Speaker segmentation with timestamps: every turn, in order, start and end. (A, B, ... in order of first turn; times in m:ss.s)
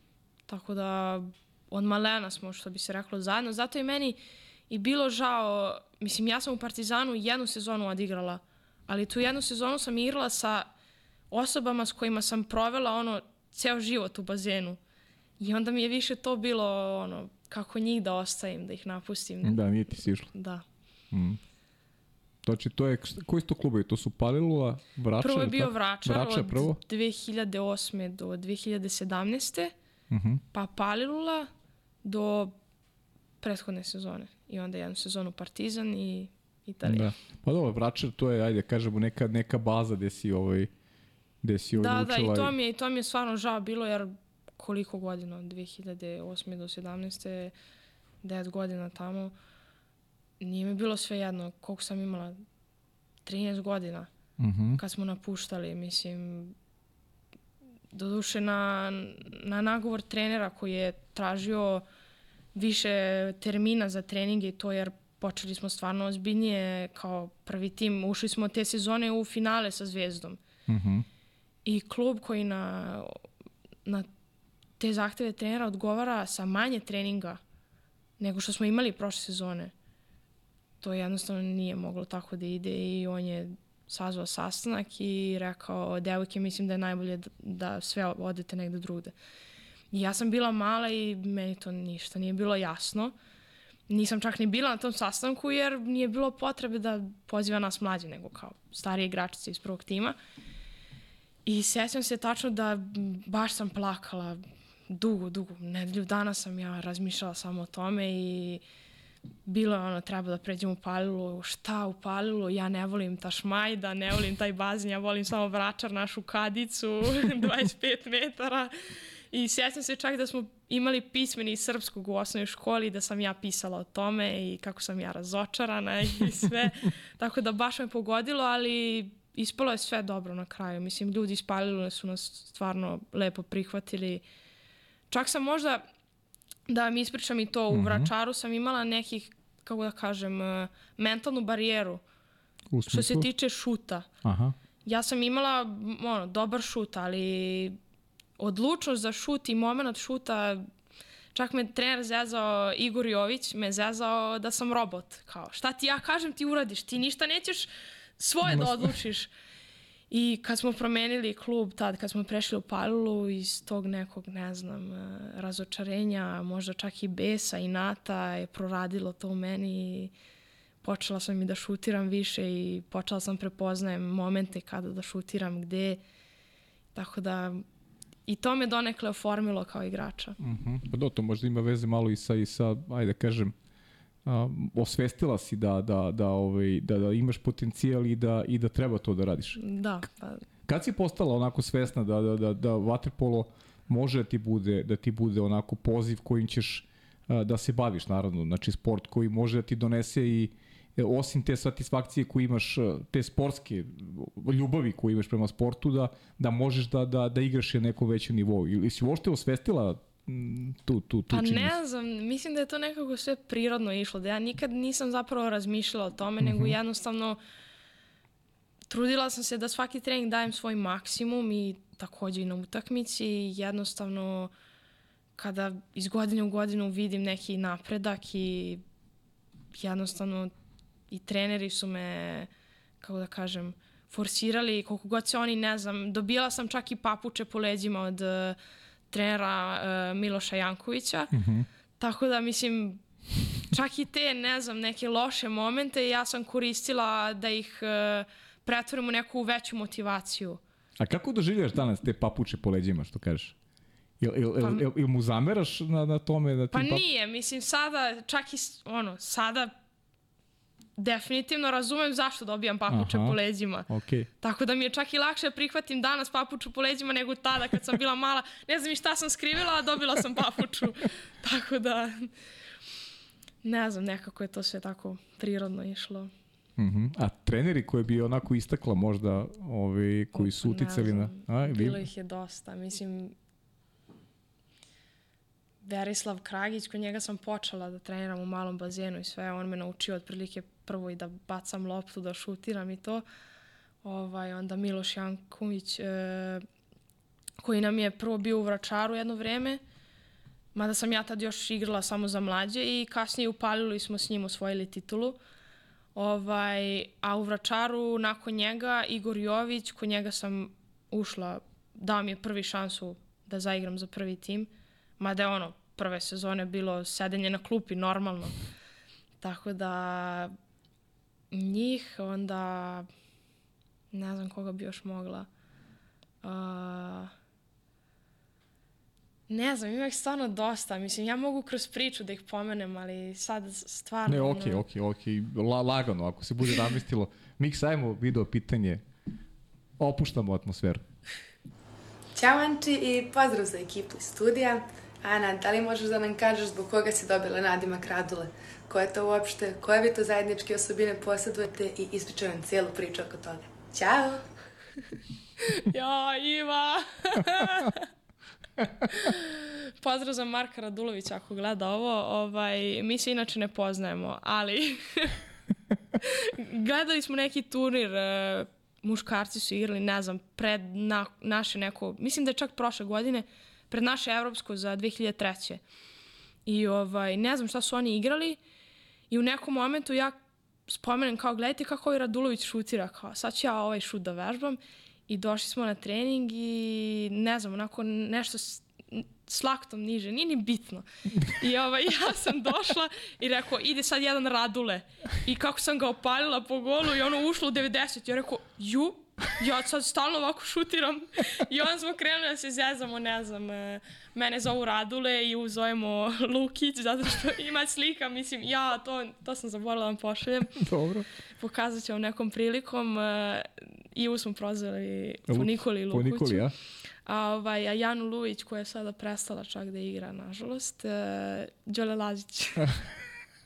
0:00.5-0:10.7 A
0:11.3-0:14.8 A
0:15.4-0:19.6 A
0:19.4-0:20.3 B
0:20.2-0:20.6 A
0:21.1-0:21.4 B
0:22.4-0:26.8 B
0:25.2-0:29.7 A
0:30.1-0:30.4 B
0:30.5-0:31.5 A
0:32.0-0:32.6 A
0:33.4-0:37.1 A
0:36.8-0:40.7 B
0:41.4-0:42.5 B
0:41.7-0:47.5 A
0:48.2-0:49.3 A
0:50.4-0:52.4 A
0:53.2-0:54.1 A
0:54.4-0:54.8 B
0:54.7-0:56.6 A
0:57.9-1:01.8 A
1:02.5-1:10.4 A
1:10.7-1:11.0 B
1:11.6-1:13.2 A
1:14.8-1:17.4 A
1:18.2-1:19.7 A
1:20.8-1:29.1 A
1:29.9-1:33.1 A
1:33.9-1:40.2 A
1:41.4-1:48.6 A
1:49.4-1:58.7 A
1:59.3-2:14.2 A
2:15.1-2:15.8 A
2:16.7-2:22.0 A
2:17.7-2:18.1 B
2:22.7-2:23.3 B
2:22.9-2:24.1 A
2:24.2-2:24.5 B
2:24.8-2:27.8 A
2:28.4-2:30.6 A
2:31.3-2:39.3 A
2:38.5-2:38.9 B
2:40.1-2:50.1 A
2:50.8-2:56.0 A
2:56.9-2:57.6 A
2:58.3-3:00.4 A
3:00.4-3:03.5 B
3:04.2-3:09.6 B
3:09.6-3:10.4 A
3:10.7-3:31.7 B
3:31.3-3:37.4 A
3:36.4-3:36.7 B
3:38.9-3:44.5 A
3:45.4-3:48.8 A
3:49.7-3:50.5 A
3:51.1-3:52.5 A
3:53.0-3:58.6 A
3:59.1-4:01.3 A
4:01.3-4:01.7 B
4:02.0-4:03.0 A
4:03.7-4:10.6 A
4:11.0-4:13.5 B
4:14.2-4:17.0 B
4:16.7-4:19.7 A
4:21.0-4:23.9 A
4:22.9-4:23.4 B
4:23.9-4:24.3 B
4:24.4-4:32.3 A
4:33.6-4:36.3 A
4:36.8-4:42.0 B
4:40.3-4:43.4 A
4:45.8-4:53.2 A
4:54.0-4:56.6 A
4:57.6-4:59.8 A
5:00.7-5:05.4 A
5:06.1-5:18.6 A
5:19.4-5:20.5 A
5:21.5-5:23.1 A
5:24.1-5:25.5 A
5:26.4-5:27.3 A
5:29.5-5:34.8 A
5:34.3-5:39.0 B
5:40.0-5:41.0 B
5:42.3-5:54.4 C
5:55.7-5:58.1 A
5:59.1-6:05.4 A
6:06.2-6:15.8 A
6:16.6-6:18.6 A
6:19.3-6:20.3 A
6:20.9-6:50.8 A
6:50.8-6:51.2 B
6:51.6-6:56.6 A
6:55.5-6:56.7 B
6:57.2-7:02.9 A